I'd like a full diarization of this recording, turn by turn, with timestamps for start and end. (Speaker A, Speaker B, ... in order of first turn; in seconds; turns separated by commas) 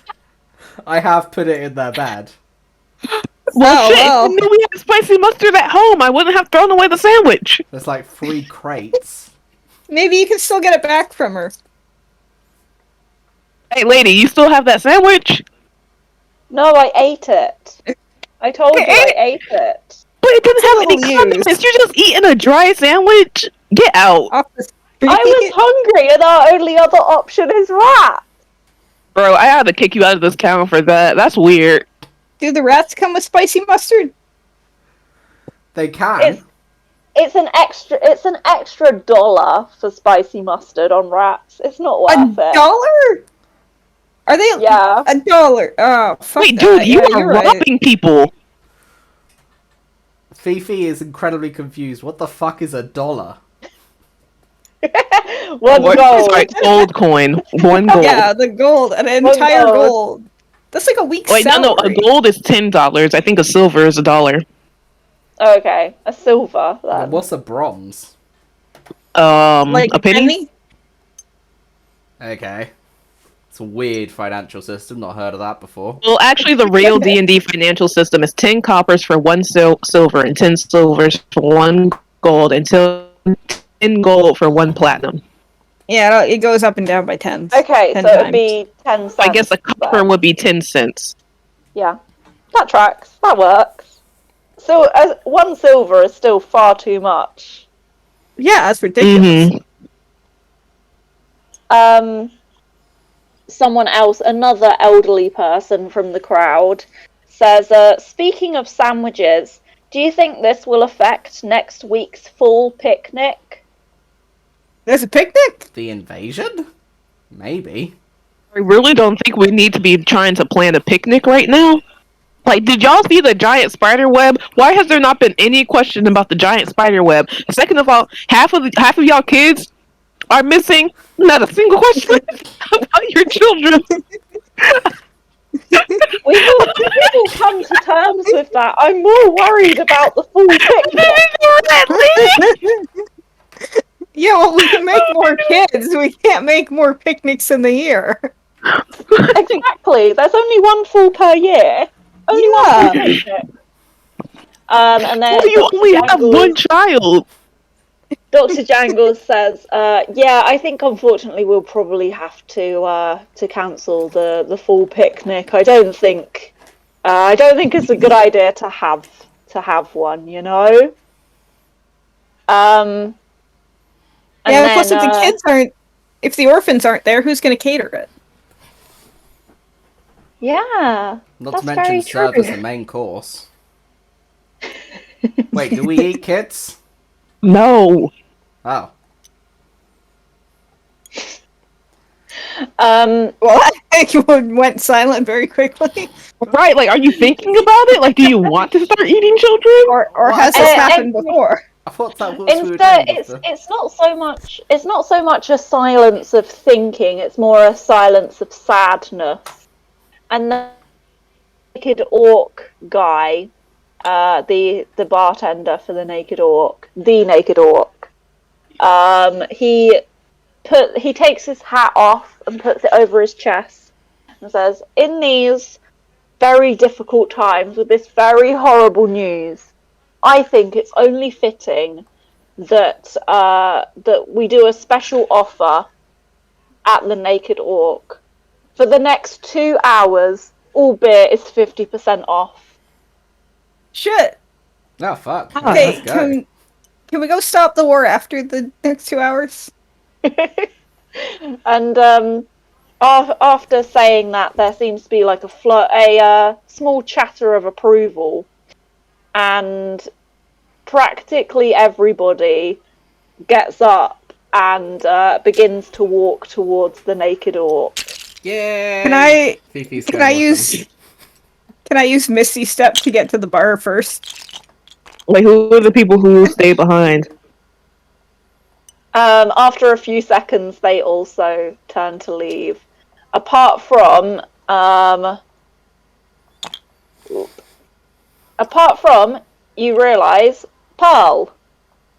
Speaker A: 0.8-2.3, Speaker B: 3.5-7.6, Speaker C: 3.6-4.4, Speaker A: 7.7-9.3, Speaker C: 9.9-11.5, Speaker B: 13.7-15.4, Speaker D: 16.5-17.8, Speaker D: 18.4-20.0, Speaker B: 18.7-19.2, Speaker B: 20.2-24.3, Speaker C: 20.6-21.5, Speaker C: 24.3-25.5, Speaker D: 25.1-28.2, Speaker B: 29.1-31.9, Speaker C: 32.4-34.1, Speaker A: 35.7-36.4, Speaker D: 37.1-42.6, Speaker C: 42.1-43.2, Speaker C: 44.3-47.6, Speaker D: 44.6-45.1, Speaker B: 46.4-48.3, Speaker A: 50.3-53.4, Speaker D: 54.8-56.5, Speaker B: 55.7-58.3, Speaker C: 55.7-56.8, Speaker C: 58.0-62.0, Speaker D: 59.2-59.9, Speaker B: 61.3-64.4, Speaker D: 65.4-67.2, Speaker A: 66.9-68.1, Speaker B: 69.1-70.3, Speaker C: 69.7-70.5, Speaker A: 72.2-72.7, Speaker A: 73.5-76.0, Speaker B: 76.0-85.2, Speaker D: 76.7-77.2, Speaker C: 85.9-88.5, Speaker D: 87.5-90.1, Speaker B: 89.2-91.1, Speaker D: 92.5-93.8, Speaker D: 94.6-97.7, Speaker C: 98.4-99.5, Speaker B: 99.0-99.5, Speaker D: 101.7-102.3, Speaker D: 103.5-113.6, Speaker C: 114.8-115.7, Speaker A: 115.7-116.6, Speaker A: 117.3-117.9, Speaker B: 118.5-121.8, Speaker B: 122.4-129.7, Speaker B: 130.3-133.8, Speaker B: 134.6-134.9, Speaker B: 135.7-136.1, Speaker D: 136.2-141.2, Speaker B: 136.7-137.1, Speaker B: 140.6-142.6, Speaker C: 142.4-142.7, Speaker C: 144.1-148.3, Speaker B: 144.7-145.5, Speaker B: 149.1-149.6, Speaker D: 149.3-153.4, Speaker C: 152.3-153.1, Speaker D: 154.7-156.6, Speaker B: 155.2-157.2, Speaker D: 158.3-170.9, Speaker D: 172.5-173.2, Speaker D: 174.4-175.3, Speaker C: 174.4-178.1, Speaker D: 180.4-182.6, Speaker A: 181.4-183.5, Speaker A: 185.5-186.8, Speaker B: 187.4-188.1, Speaker A: 188.6-188.9, Speaker D: 192.8-193.3, Speaker C: 193.4-196.1, Speaker B: 196.4-199.9, Speaker C: 199.9-201.6, Speaker A: 200.2-200.9, Speaker D: 200.5-201.4, Speaker A: 201.8-203.4, Speaker D: 202.4-209.6, Speaker D: 210.3-210.8, Speaker D: 211.7-213.5, Speaker D: 214.0-218.1, Speaker D: 218.8-220.0, Speaker D: 220.6-223.9, Speaker D: 224.4-225.8, Speaker D: 226.4-229.7, Speaker D: 230.2-232.1, Speaker D: 232.6-235.9, Speaker D: 236.8-238.2, Speaker D: 238.8-242.6, Speaker C: 243.9-244.4, Speaker A: 245.0-246.4, Speaker B: 245.6-245.9, Speaker C: 245.6-246.4, Speaker C: 247.1-249.7, Speaker D: 250.3-250.7, Speaker D: 251.6-252.5, Speaker D: 253.0-258.5, Speaker D: 259.3-260.1, Speaker D: 260.9-262.8, Speaker D: 263.5-268.0, Speaker A: 268.4-270.7, Speaker C: 269.0-270.9, Speaker C: 271.9-274.2, Speaker B: 275.3-277.3, Speaker D: 279.1-285.4, Speaker D: 288.6-291.5